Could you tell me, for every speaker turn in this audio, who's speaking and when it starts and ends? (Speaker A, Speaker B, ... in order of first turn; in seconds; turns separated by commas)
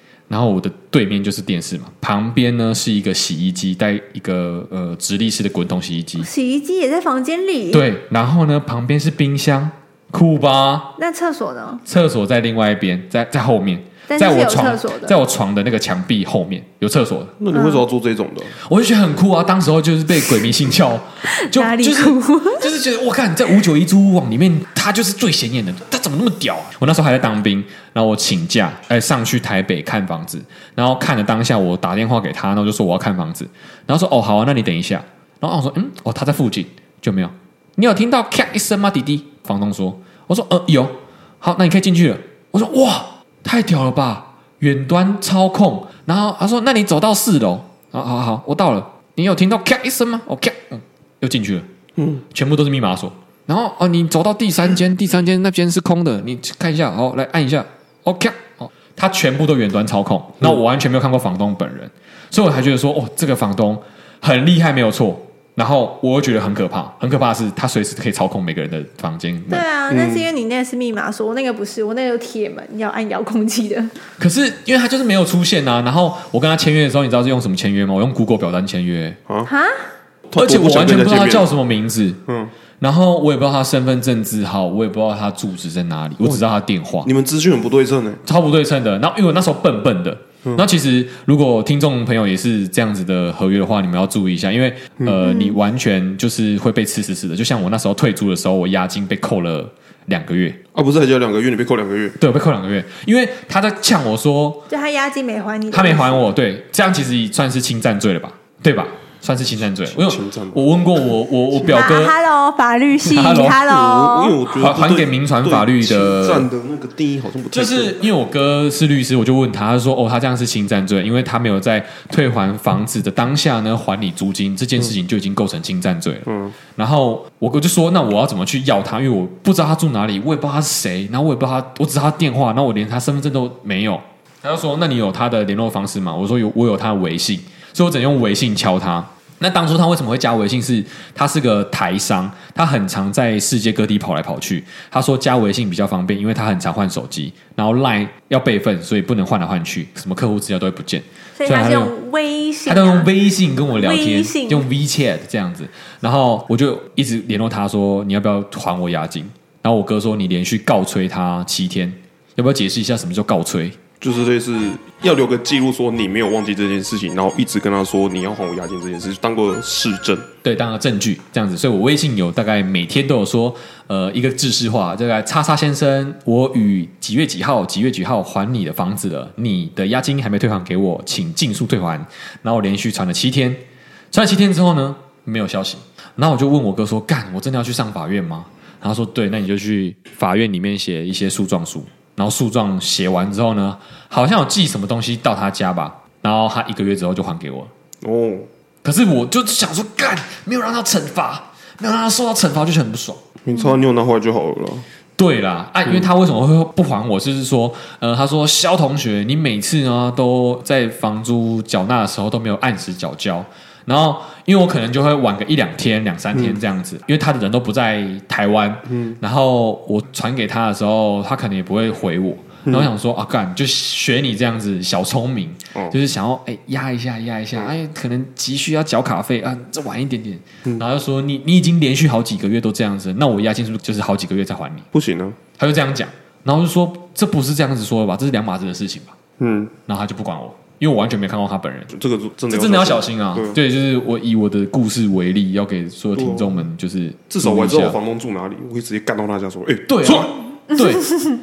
Speaker A: 0.3-6.3, Speaker B: 6.2-7.9, Speaker A: 7.7-10.9, Speaker B: 11.0-11.8, Speaker A: 11.9-17.4, Speaker B: 14.1-15.2, Speaker C: 17.4-18.6, Speaker B: 17.5-17.8, Speaker A: 18.6-51.7, Speaker B: 21.4-22.7, Speaker C: 52.0-52.2, Speaker A: 52.3-69.7, Speaker B: 69.5-73.9, Speaker C: 69.9-70.3, Speaker A: 74.2-79.2, Speaker B: 79.5-79.9, Speaker C: 80.3-81.5, Speaker A: 80.4-82.2, Speaker C: 82.3-82.5, Speaker A: 82.8-87.1, Speaker C: 86.2-86.5, Speaker C: 87.0-88.2, Speaker A: 88.2-100.6, Speaker B: 95.2-95.6, Speaker C: 100.7-102.2, Speaker A: 102.2-104.7, Speaker B: 104.7-106.3, Speaker A: 105.7-112.1, Speaker C: 109.9-110.7, Speaker B: 111.6-114.4, Speaker A: 113.1-113.6, Speaker C: 113.3-118.0, Speaker A: 114.6-116.5, Speaker A: 117.5-151.9, Speaker C: 126.3-126.5, Speaker B: 151.4-153.1, Speaker A: 152.7-163.8, Speaker B: 153.7-154.7, Speaker C: 164.0-170.3, Speaker A: 170.4-197.7, Speaker C: 198.0-198.5, Speaker A: 198.8-203.2, Speaker C: 203.4-204.9, Speaker A: 205.2-234.9, Speaker C: 218.9-219.2, Speaker C: 234.9-235.4, Speaker A: 235.6-239.2, Speaker C: 239.4-239.7, Speaker A: 239.9-241.9, Speaker C: 241.9-243.6, Speaker A: 242.5-248.0, Speaker C: 246.1-246.7, Speaker C: 247.3-250.3, Speaker A: 249.9-251.2